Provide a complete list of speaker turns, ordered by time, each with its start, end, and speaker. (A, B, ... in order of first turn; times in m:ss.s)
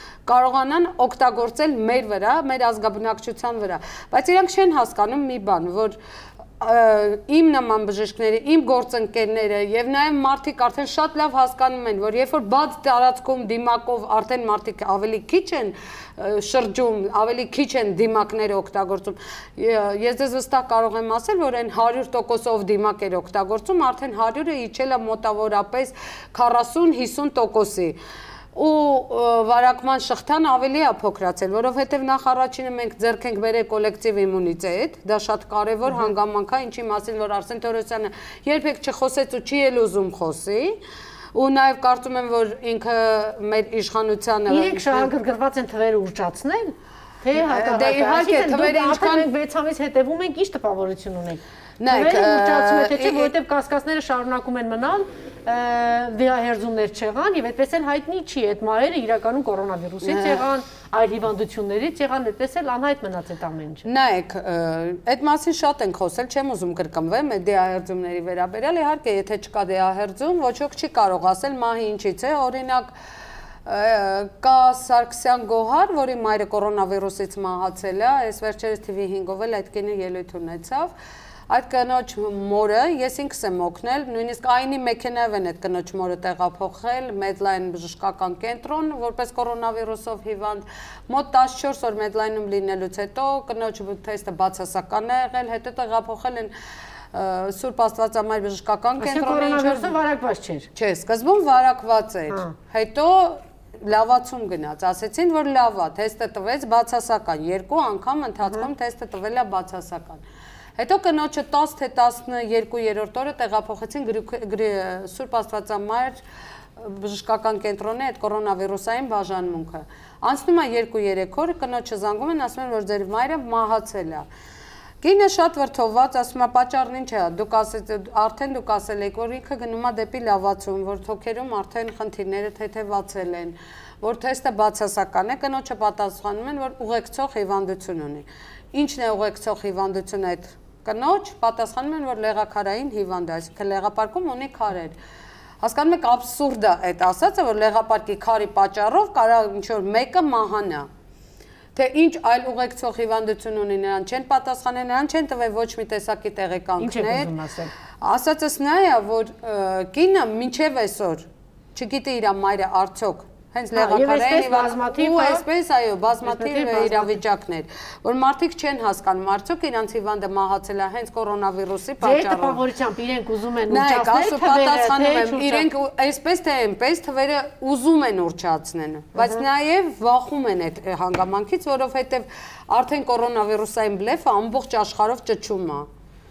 0:00.3-0:06.0 A
0:06.6-0:28.0 A
0:28.6-0:40.8 A
0:41.3-0:45.1 A
0:44.5-1:03.8 B
0:47.4-0:49.3 A
0:51.8-0:53.3 A
1:00.0-1:00.4 A
1:03.8-1:12.9 A
1:13.7-1:20.9 A
1:21.5-1:36.5 A
1:37.1-1:40.0 A
1:39.0-1:40.7 B
1:40.8-1:50.2 A
1:50.8-1:56.2 A
1:56.8-2:04.3 A
2:05.0-2:25.0 A
2:25.6-2:30.9 A
2:31.8-2:37.3 A
2:36.8-2:37.7 B
2:38.0-2:52.6 A
2:43.7-2:45.4 B
2:46.3-2:47.2 B
2:52.0-2:55.7 B
2:53.7-3:05.9 A